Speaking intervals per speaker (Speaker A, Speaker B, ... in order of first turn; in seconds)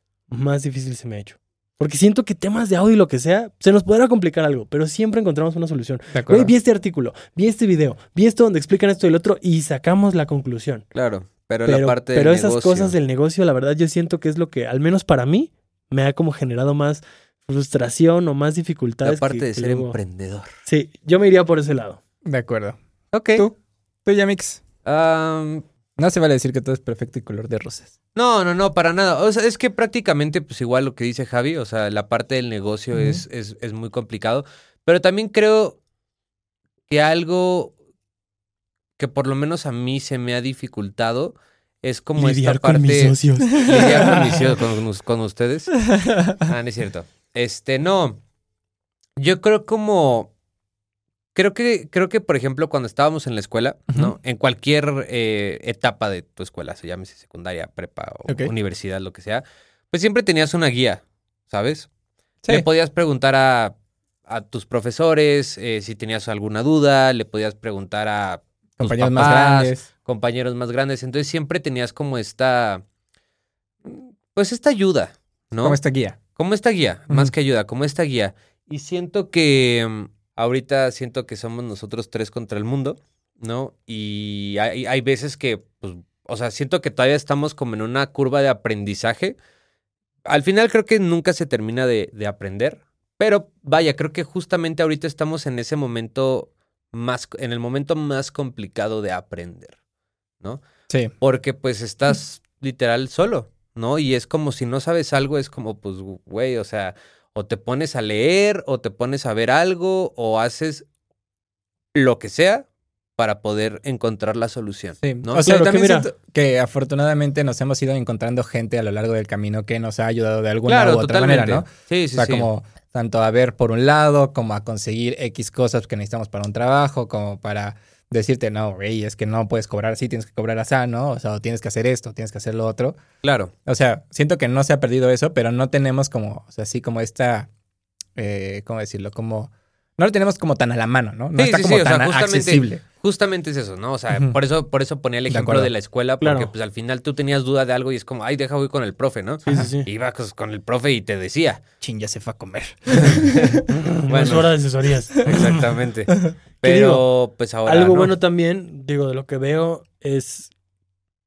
Speaker A: 0.3-10.9, 11.7-19.9, 20.6-22.0, 42.2-44.2, 115.4-116.1, 146.2-146.5, 149.4-149.9, 154.0-155.5, 156.6-157.0, 157.6-160.5
Speaker B: 6.1-6.5, 22.2-22.8, 23.4-24.6, 26.0-27.9, 33.0-33.2, 43.6-44.2, 45.9-46.4, 68.8-69.9, 75.6-76.2, 115.0-133.0, 133.7-137.5, 138.2-142.8, 145.3-145.7, 151.8-153.7
Speaker C: 10.9-12.9, 19.0-20.5, 23.1-23.5, 24.9-25.6, 28.1-35.8, 36.9-37.7, 39.0-45.8, 46.4-48.2, 49.2-50.3, 51.4-61.9, 62.5-63.7, 64.3-72.8, 73.8-75.8, 76.3-89.4, 90.2-99.7, 101.2-110.9, 111.9-115.4, 120.7-122.5, 133.2-133.5, 141.4-151.6, 152.9-154.5, 155.2-158.1